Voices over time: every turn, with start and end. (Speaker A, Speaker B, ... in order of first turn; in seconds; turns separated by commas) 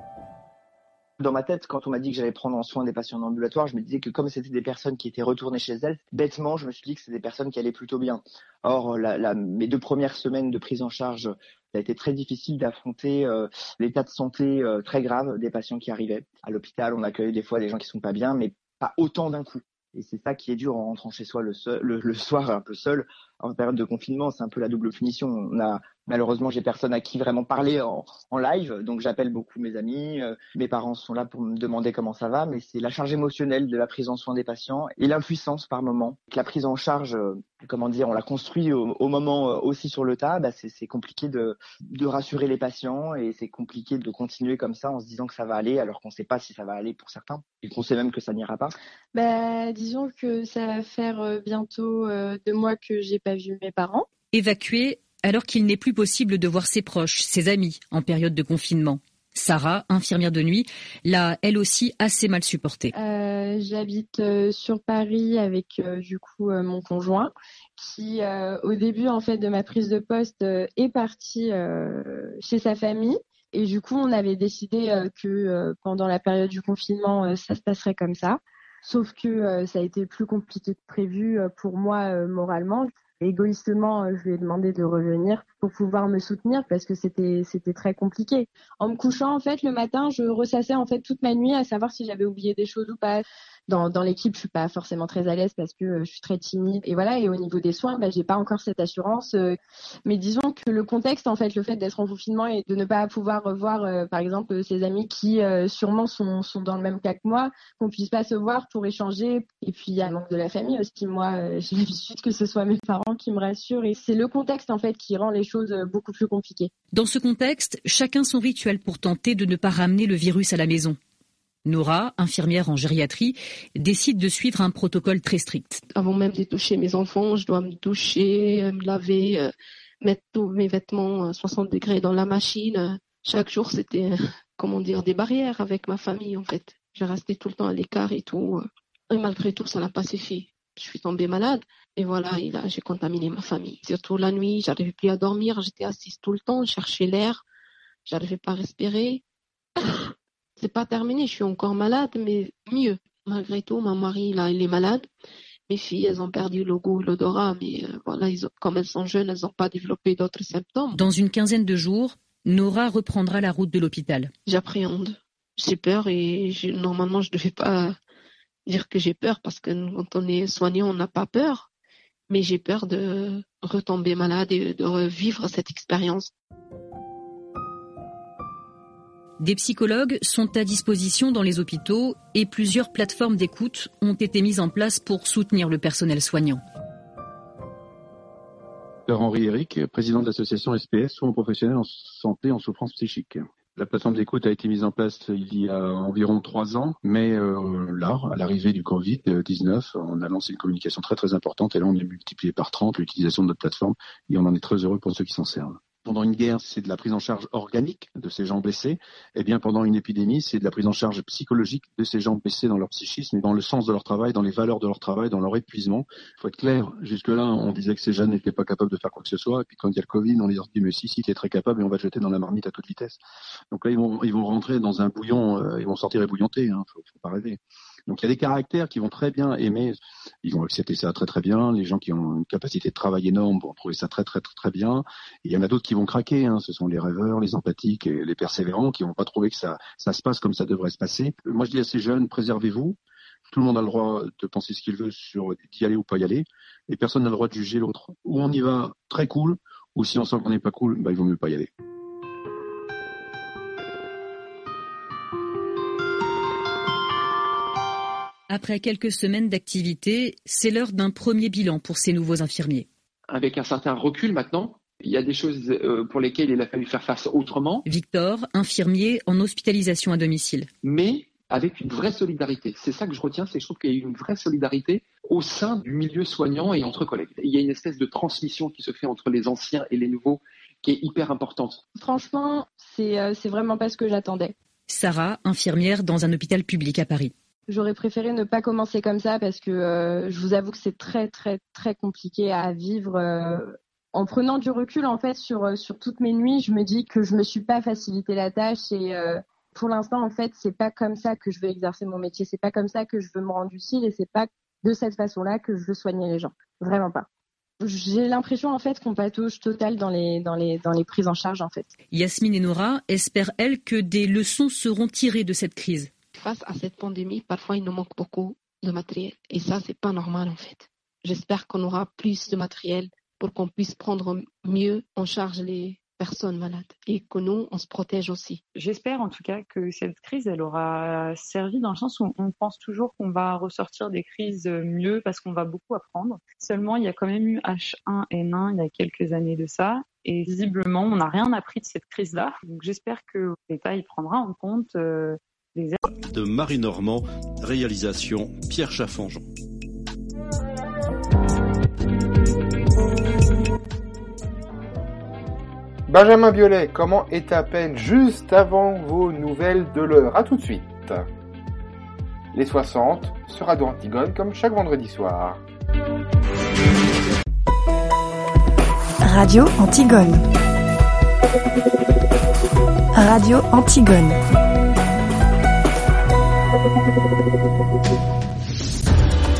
Speaker A: 1.2-48.7, Speaker B: 49.1-54.1, Speaker C: 54.3-62.9, Speaker B: 62.9-116.7, Speaker C: 116.9-121.0, Speaker C: 121.7-125.8, Speaker D: 126.0-147.4, Speaker D: 148.1-149.2, Speaker D: 149.8-155.1, Speaker D: 155.7-161.0, Speaker C: 160.9-164.3, Speaker D: 164.5-168.0, Speaker D: 168.7-171.7, Speaker D: 172.3-176.3, Speaker C: 179.4-186.6, Speaker E: 189.1-223.2, Speaker E: 223.7-243.0, Speaker E: 243.5-251.7, Speaker C: 258.5-262.9, Speaker F: 263.3-267.9, Speaker C: 267.9-270.7, Speaker F: 270.8-281.8, Speaker B: 282.0-284.5, Speaker C: 284.9-287.3, Speaker B: 287.7-307.3, Speaker B: 307.8-311.9, Speaker C: 312.1-316.1, Speaker D: 316.4-328.6, Speaker G: 328.8-346.1, Speaker H: 346.1-349.4, Speaker I: 356.1-361.3, Speaker I: 362.5-365.6, Speaker J: 369.2-370.4, Speaker J: 373.1-374.4